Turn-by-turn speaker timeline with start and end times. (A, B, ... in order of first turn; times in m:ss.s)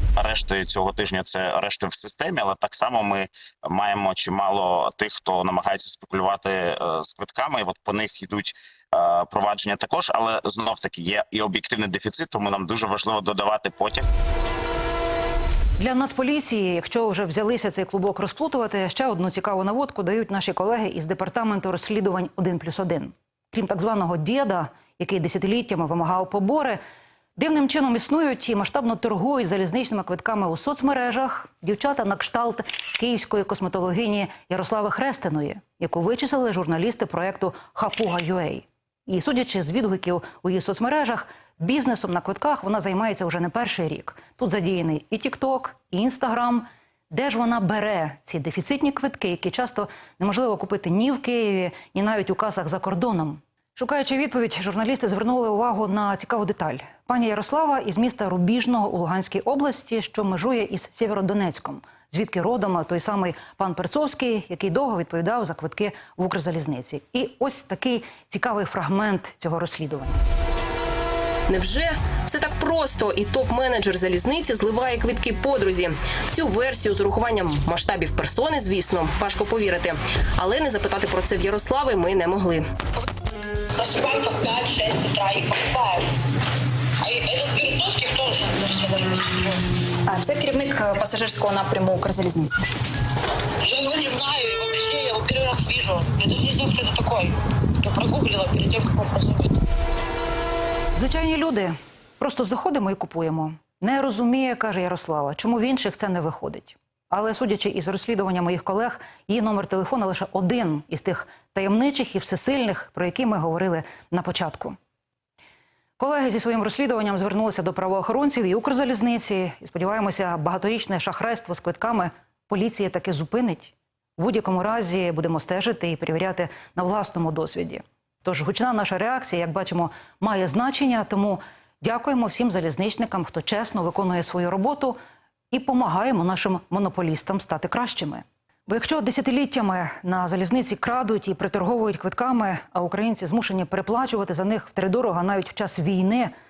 0:00.2-0:14.1 A
0:15.8-0:26.8 B
0:27.4-1:10.2 B
1:11.5-1:22.7 C
1:23.8-1:26.0 D
1:27.1-1:28.5 D
1:28.5-1:29.5 E
1:30.0-1:32.7 E
1:33.7-1:37.3 D
1:38.1-1:39.1 D
1:40.9-1:54.8 B
1:56.0-2:15.0 B
2:15.5-2:26.3 B